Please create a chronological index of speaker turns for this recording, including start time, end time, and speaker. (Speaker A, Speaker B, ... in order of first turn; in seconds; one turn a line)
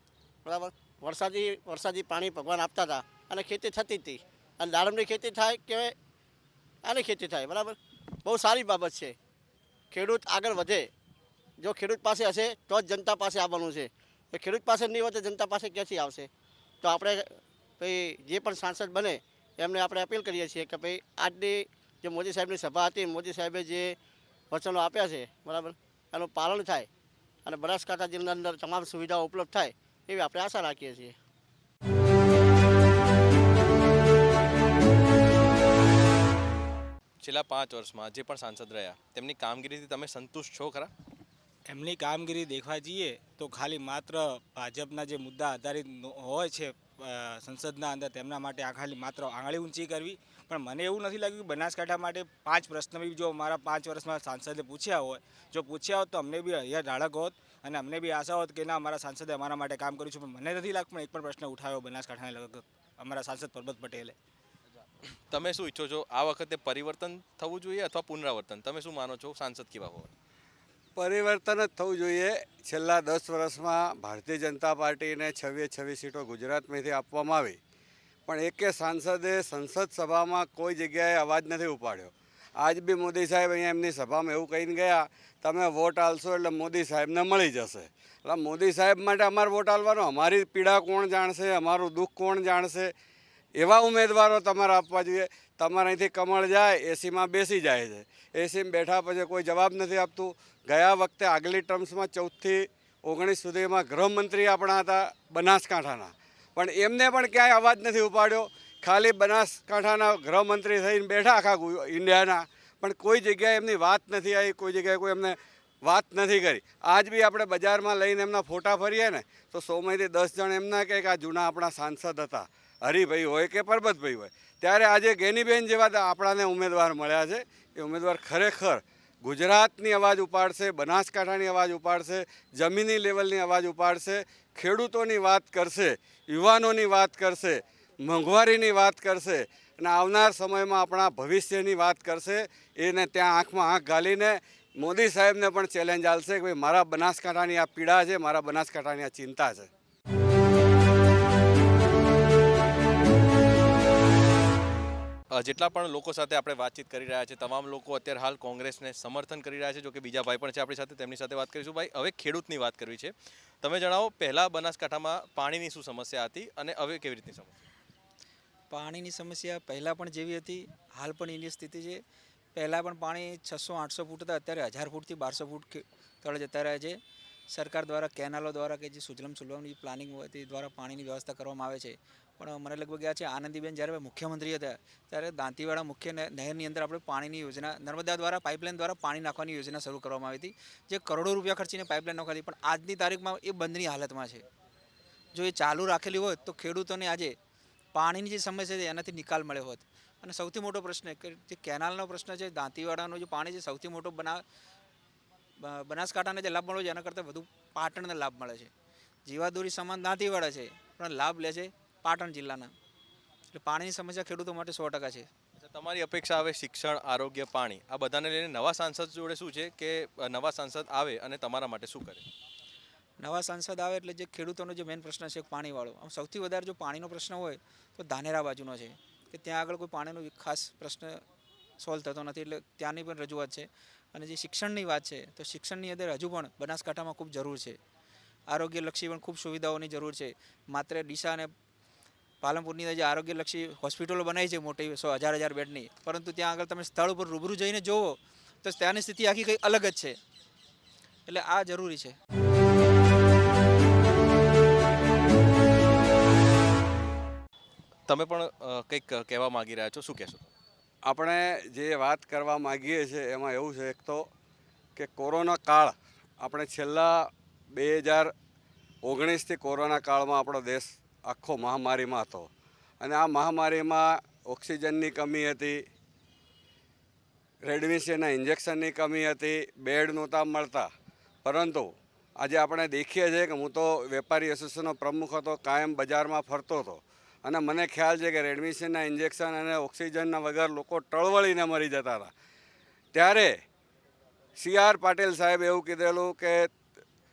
Speaker A: 0.4-5.9
Speaker A: 6.8-9.2
Speaker A: 9.9-10.9
Speaker A: 11.6-16.3
Speaker A: 16.8-23.9
Speaker A: 24.5-26.9
Speaker A: 27.4-31.1
Speaker B: 37.2-40.9
Speaker C: 41.6-64.1
Speaker B: 65.3-70.1
Speaker D: 71.0-77.6
Speaker D: 78.3-92.9
Speaker D: 93.6-149.7
Speaker B: 155.3-167.6
Speaker E: 168.7-172.0
Speaker E: 172.5-194.4
Speaker E: 195.3-197.3
Speaker E: 197.9-204.4
Speaker E: 205.6-208.7
Speaker E: 209.2-212.7
Speaker E: 213.5-215.3
Speaker B: 215.6-222.2
Speaker E: 223.2-231.2
Speaker E: 231.8-237.8
Speaker E: 238.5-241.5
Speaker E: 242.4-250.2
Speaker E: 251.2-252.1
Speaker B: 258.1-260.5
Speaker D: 261.1-264.2
Speaker D: 264.9-268.3
Speaker D: 269.0-272.5
Speaker D: 273.0-275.8
Speaker D: 277.6-280.9
Speaker D: 281.4-292.3
Speaker D: 293.1-293.5
Speaker D: 294.6-296.6